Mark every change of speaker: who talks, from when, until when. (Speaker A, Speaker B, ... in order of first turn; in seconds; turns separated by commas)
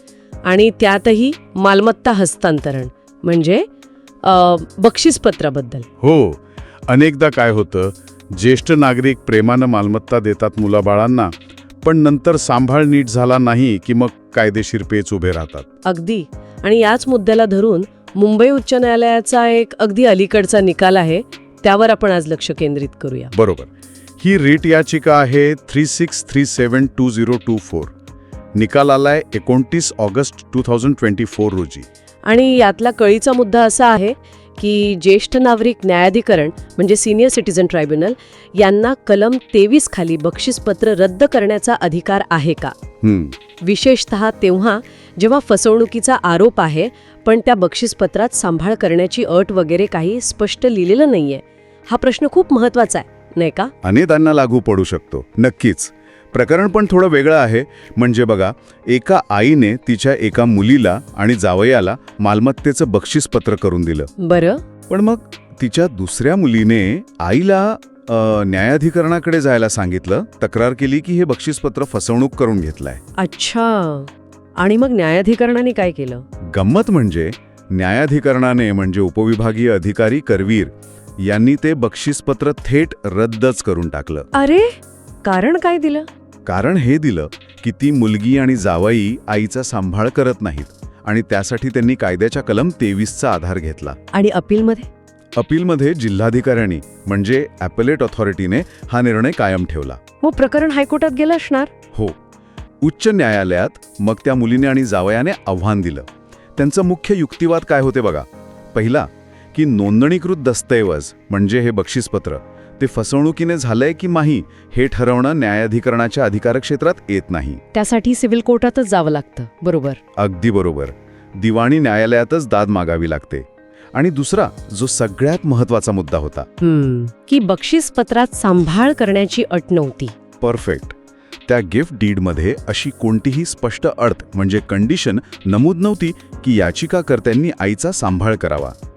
Speaker A: 0.4-3.7, Speaker A: 4.2-5.8, Speaker B: 6.0-15.7, Speaker A: 15.8-23.3, Speaker B: 23.3-27.9, Speaker B: 28.5-31.9, Speaker A: 32.2-42.7, Speaker B: 43.0-43.3, Speaker A: 43.6-53.7, Speaker B: 53.8-64.1, Speaker A: 64.2-64.6, Speaker B: 64.9-73.0, Speaker A: 73.2-76.2, Speaker B: 76.5-84.3, Speaker A: 84.3-86.1, Speaker B: 86.5-94.0, Speaker A: 94.1-94.9, Speaker B: 95.3-100.0, Speaker A: 100.2-101.7, Speaker B: 102.8-117.6, Speaker A: 117.7-120.0, Speaker B: 120.2-126.5, Speaker A: 126.6-130.1, Speaker B: 130.4-130.9, Speaker B: 131.5-138.7